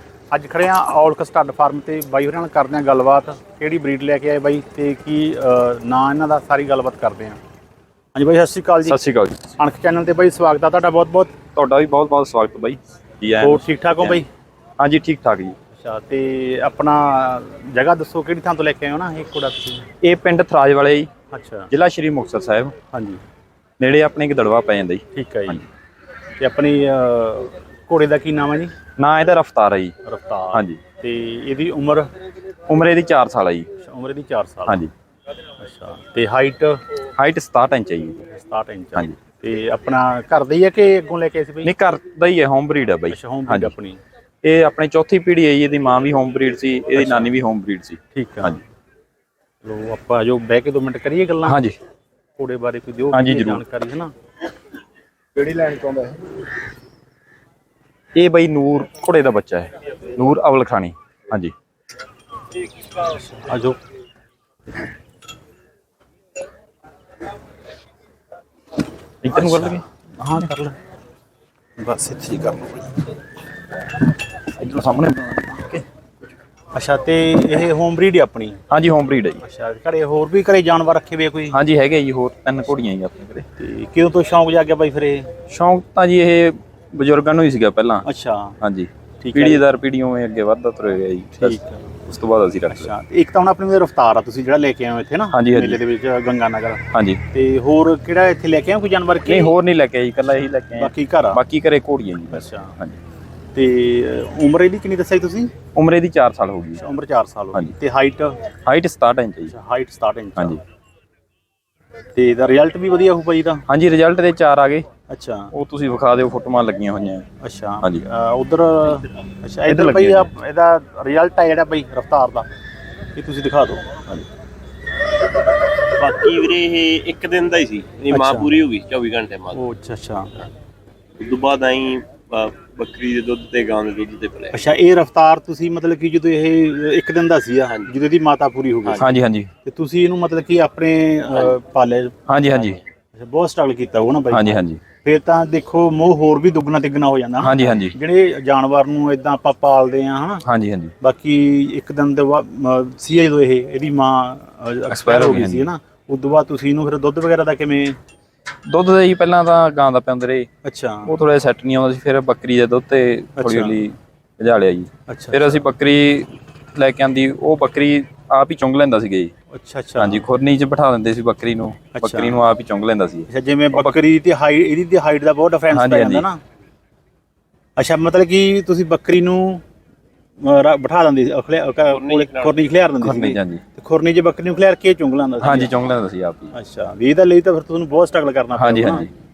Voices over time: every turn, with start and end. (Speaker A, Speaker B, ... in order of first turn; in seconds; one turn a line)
Speaker A: 0.3-7.4
Speaker A: 8.2-9.0
Speaker B: 8.8-9.5
Speaker A: 9.6-11.3
Speaker B: 11.6-14.2
Speaker A: 13.4-14.3
Speaker B: 14.8-15.6
Speaker A: 15.8-19.9
Speaker B: 20.0-21.1
Speaker A: 21.3-21.7
Speaker B: 21.7-22.7
Speaker A: 22.9-23.2
Speaker B: 23.8-25.6
Speaker A: 25.1-25.6
Speaker A: 26.4-28.7
Speaker B: 29.0-29.9
Speaker A: 30.0-32.1
Speaker B: 30.5-30.8
Speaker B: 32.7-33.7
Speaker A: 33.8-34.9
Speaker A: 35.6-36.8
Speaker B: 37.2-38.2
Speaker A: 38.2-41.7
Speaker B: 41.6-43.7
Speaker A: 43.1-44.0
Speaker B: 44.4-48.6
Speaker A: 47.0-47.3
Speaker A: 48.1-48.6
Speaker A: 49.6-51.6
Speaker B: 51.5-51.8
Speaker A: 52.4-54.1
Speaker B: 53.1-53.6
Speaker B: 58.2-61.5
Speaker A: 63.0-63.8
Speaker B: 69.2-69.8
Speaker A: 69.3-70.8
Speaker A: 71.8-72.9
Speaker B: 74.5-75.8
Speaker A: 76.7-78.6
Speaker B: 78.7-79.4
Speaker A: 79.4-81.6
Speaker B: 81.5-83.5
Speaker A: 83.6-85.3
Speaker B: 85.5-88.1
Speaker A: 88.0-88.6
Speaker B: 88.6-92.9
Speaker A: 89.2-89.7
Speaker A: 91.4-92.0
Speaker A: 92.7-99.5
Speaker B: 95.3-95.8
Speaker B: 96.9-97.2
Speaker B: 99.3-103.0
Speaker A: 100.7-101.4
Speaker A: 102.3-102.8
Speaker A: 103.5-105.5
Speaker B: 105.7-106.8
Speaker A: 106.8-108.4
Speaker B: 108.7-109.5
Speaker A: 109.5-110.6
Speaker A: 112.2-113.7
Speaker B: 113.7-114.9
Speaker A: 115.1-115.5
Speaker B: 115.5-117.3
Speaker A: 117.4-122.5
Speaker B: 119.7-120.3
Speaker A: 123.2-124.3
Speaker C: 125.9-129.6
Speaker A: 128.1-128.5
Speaker A: 129.5-130.3
Speaker C: 131.2-134.6
Speaker A: 134.5-139.1
Speaker C: 138.9-139.1
Speaker B: 139.0-139.5
Speaker A: 139.7-142.2
Speaker B: 142.3-142.8
Speaker A: 143.2-150.4
Speaker B: 144.3-144.8
Speaker B: 147.4-148.0
Speaker B: 150.4-150.9
Speaker A: 151.0-158.0
Speaker B: 154.9-155.7
Speaker B: 158.7-160.5
Speaker A: 160.6-161.1
Speaker B: 161.1-169.3
Speaker A: 163.4-163.8
Speaker A: 165.1-165.6
Speaker A: 169.5-170.3
Speaker B: 170.0-173.9
Speaker A: 171.9-172.4
Speaker A: 173.3-176.4
Speaker B: 175.7-176.3
Speaker A: 177.8-179.6
Speaker A: 180.4-185.8
Speaker C: 181.9-182.7
Speaker B: 183.0-183.6
Speaker B: 185.4-186.5
Speaker A: 186.5-189.1
Speaker B: 188.6-189.1